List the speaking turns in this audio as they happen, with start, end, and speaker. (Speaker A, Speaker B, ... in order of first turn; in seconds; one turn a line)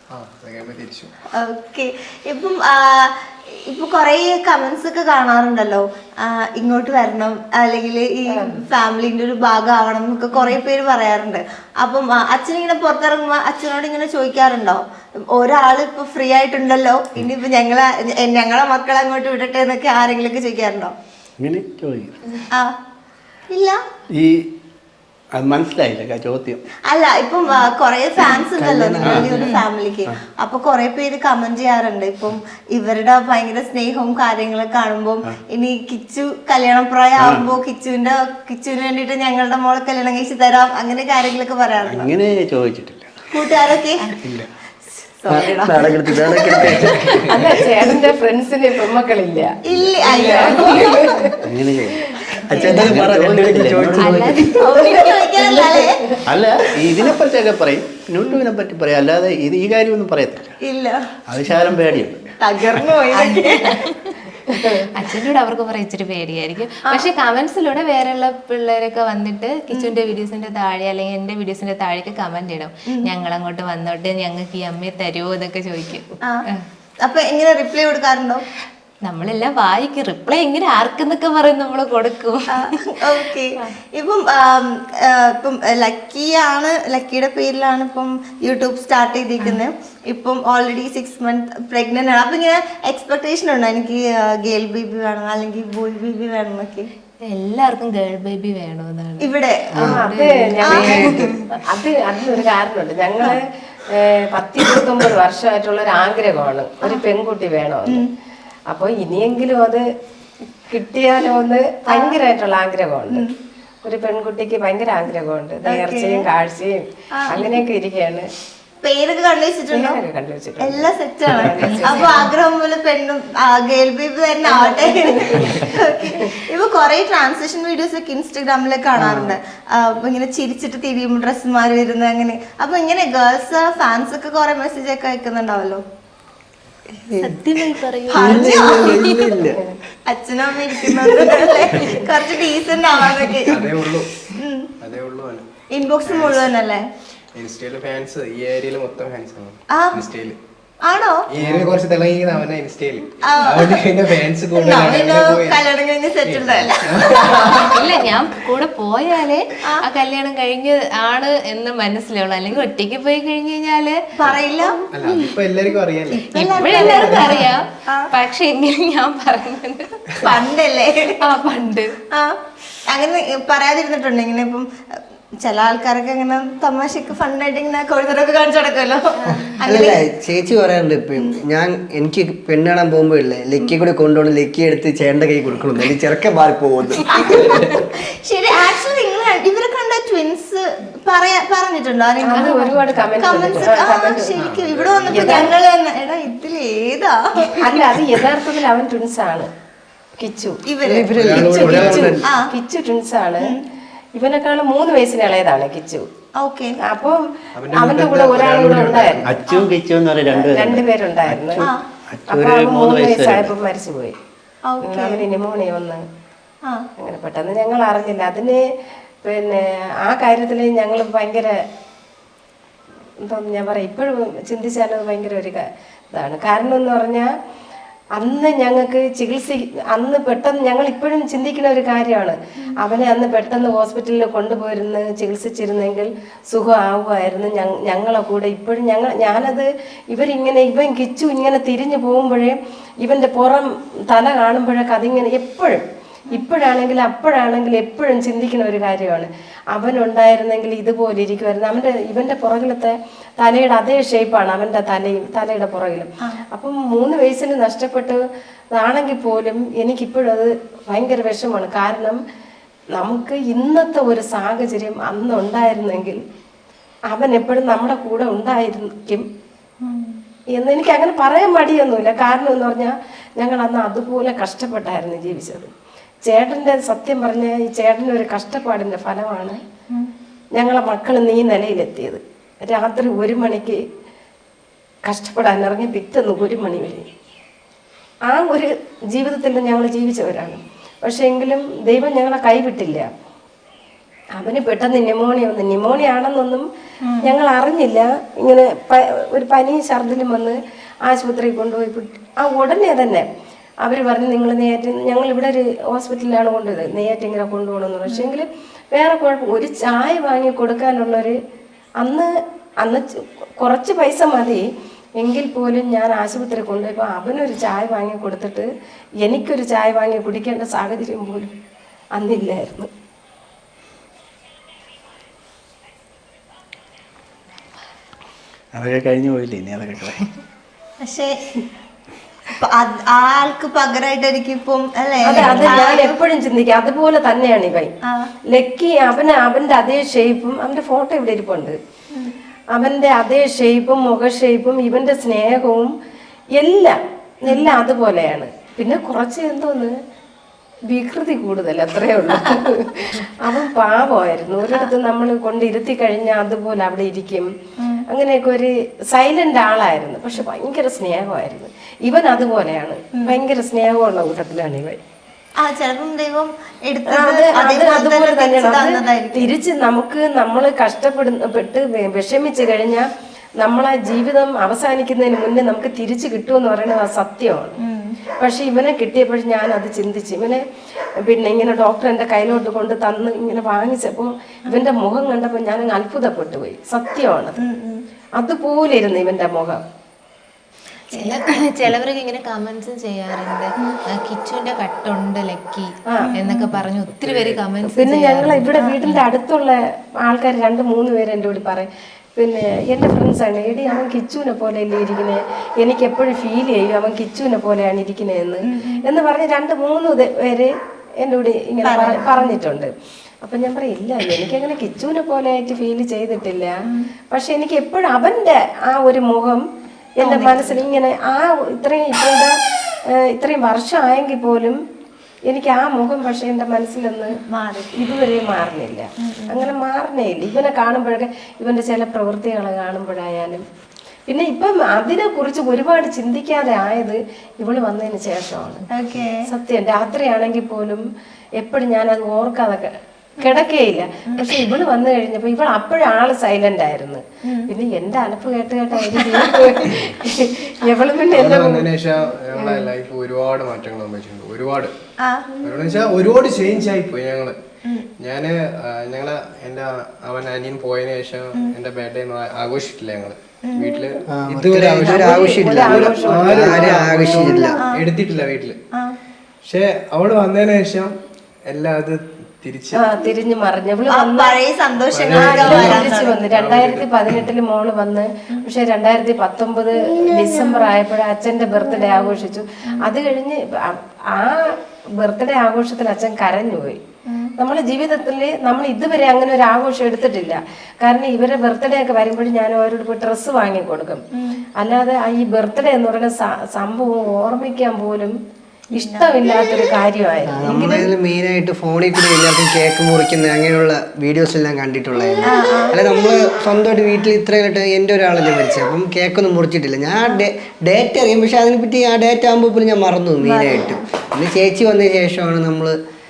Speaker A: 0.1-1.1
Speaker B: 1.3-20.9
Speaker C: 21.4-22.2
Speaker B: 22.5-22.8
Speaker B: 23.5-23.8
Speaker C: 24.1-24.5
Speaker C: 25.3-26.6
Speaker B: 26.9-42.1
Speaker D: 28.6-29.4
Speaker C: 29.0-29.3
Speaker C: 37.2-37.4
Speaker C: 41.8-43.1
Speaker B: 43.3-44.1
Speaker C: 44.2-44.5
Speaker B: 45.0-47.2
Speaker D: 45.3-47.3
Speaker A: 46.9-47.3
Speaker E: 47.3-51.4
Speaker B: 49.6-51.2
Speaker C: 51.4-54.3
Speaker D: 52.5-54.6
Speaker F: 54.0-55.9
Speaker B: 54.5-56.1
Speaker C: 56.2-60.6
Speaker B: 60.6-61.0
Speaker C: 61.3-62.3
Speaker B: 62.4-63.8
Speaker F: 63.3-64.1
Speaker E: 64.5-64.9
Speaker F: 64.8-76.7
Speaker B: 77.0-78.4
Speaker F: 79.0-83.7
Speaker B: 82.5-96.9
Speaker F: 97.2-101.4
Speaker B: 99.2-100.0
Speaker E: 99.8-108.0
Speaker B: 100.7-101.3
Speaker E: 108.7-109.9
Speaker E: 110.7-113.3
Speaker B: 111.9-112.2
Speaker E: 113.8-118.3
Speaker B: 115.6-116.3
Speaker B: 117.1-117.5
Speaker B: 118.8-120.0
Speaker E: 119.7-122.3
Speaker B: 120.6-135.8
Speaker F: 121.6-122.3
Speaker E: 124.5-126.2
Speaker D: 128.9-129.3
Speaker D: 136.9-139.6
Speaker F: 137.2-139.4
Speaker B: 138.1-139.0
Speaker B: 140.1-143.7
Speaker A: 143.5-144.1
Speaker B: 144.3-144.7
Speaker A: 144.8-145.4
Speaker B: 145.7-146.8
Speaker A: 146.1-146.5
Speaker A: 147.3-150.3
Speaker B: 149.7-150.0
Speaker B: 150.8-151.2
Speaker A: 151.3-155.6
Speaker B: 153.2-153.8
Speaker B: 154.5-157.8
Speaker A: 156.2-157.7
Speaker F: 157.6-164.1
Speaker B: 164.1-164.8
Speaker A: 164.9-167.4
Speaker B: 166.2-168.1
Speaker F: 166.6-170.3
Speaker B: 170.2-171.4
Speaker F: 171.2-171.9
Speaker B: 172.1-174.7
Speaker B: 175.4-180.0
Speaker D: 179.7-187.2
Speaker B: 187.1-197.7
Speaker A: 187.2-187.8
Speaker E: 192.2-194.3
Speaker F: 192.3-193.1
Speaker A: 194.3-195.5
Speaker E: 195.1-195.5
Speaker E: 197.5-199.5
Speaker E: 200.2-200.6
Speaker B: 200.7-201.1
Speaker D: 200.8-202.2
Speaker A: 201.1-202.2
Speaker E: 201.3-203.6
Speaker B: 202.2-202.5
Speaker E: 204.1-206.1
Speaker B: 206.4-206.8
Speaker E: 206.8-209.4
Speaker A: 207.6-209.3
Speaker C: 209.2-213.6
Speaker E: 210.3-211.6
Speaker E: 212.3-214.2
Speaker B: 214.7-215.2
Speaker E: 214.8-216.0
Speaker E: 217.0-218.7
Speaker E: 219.2-221.6
Speaker E: 223.2-227.3
Speaker E: 228.2-262.2
Speaker E: 262.9-266.2
Speaker E: 267.1-269.2
Speaker E: 270.5-275.7
Speaker E: 276.2-279.6
Speaker E: 280.5-283.8
Speaker E: 285.1-287.1
Speaker E: 288.3-293.1
Speaker E: 294.4-296.7
Speaker E: 297.2-303.3
Speaker E: 303.8-311.4
Speaker E: 312.0-314.6
Speaker E: 315.2-318.7
Speaker E: 319.2-321.5
Speaker E: 322.1-322.9
Speaker C: 328.7-330.2
Speaker B: 331.0-331.4
Speaker B: 332.6-336.2
Speaker E: 335.2-337.9
Speaker F: 335.4-335.7
Speaker B: 338.1-338.3
Speaker E: 338.5-341.8
Speaker E: 342.7-345.9
Speaker E: 346.5-349.9
Speaker E: 350.9-357.5
Speaker B: 357.8-358.0
Speaker E: 358.1-365.0
Speaker B: 365.6-369.5
Speaker E: 367.1-377.8
Speaker B: 377.8-378.1
Speaker E: 378.4-380.6
Speaker E: 381.2-387.6
Speaker B: 387.6-388.0
Speaker E: 388.4-389.8
Speaker F: 391.1-399.2
Speaker B: 396.2-396.7
Speaker A: 397.2-397.6
Speaker E: 397.9-419.7
Speaker B: 408.6-409.0
Speaker B: 411.8-412.6
Speaker E: 420.2-422.6
Speaker B: 420.2-420.8
Speaker E: 423.1-424.8
Speaker E: 425.5-427.4
Speaker B: 427.3-428.1
Speaker E: 427.9-433.6
Speaker B: 429.2-429.6
Speaker E: 434.3-438.9
Speaker B: 438.9-439.4
Speaker E: 439.5-441.0
Speaker E: 441.6-451.9
Speaker B: 444.3-444.6
Speaker B: 447.4-447.7
Speaker B: 449.1-449.8
Speaker A: 451.3-454.9
Speaker E: 452.6-452.9
Speaker B: 455.2-455.6
Speaker A: 455.6-457.6
Speaker A: 458.2-468.8
Speaker B: 463.6-464.0
Speaker D: 464.3-467.8
Speaker E: 465.0-467.8
Speaker A: 469.6-471.1
Speaker A: 471.7-473.0
Speaker E: 472.9-474.5
Speaker B: 474.1-476.4
Speaker A: 475.1-477.4
Speaker E: 475.3-487.0
Speaker B: 480.1-480.7
Speaker B: 487.3-487.5
Speaker E: 487.6-494.2
Speaker B: 494.3-494.6
Speaker E: 494.8-498.4
Speaker B: 498.9-500.0
Speaker E: 498.9-501.1
Speaker D: 500.5-516.0
Speaker B: 505.4-506.0
Speaker B: 513.4-514.0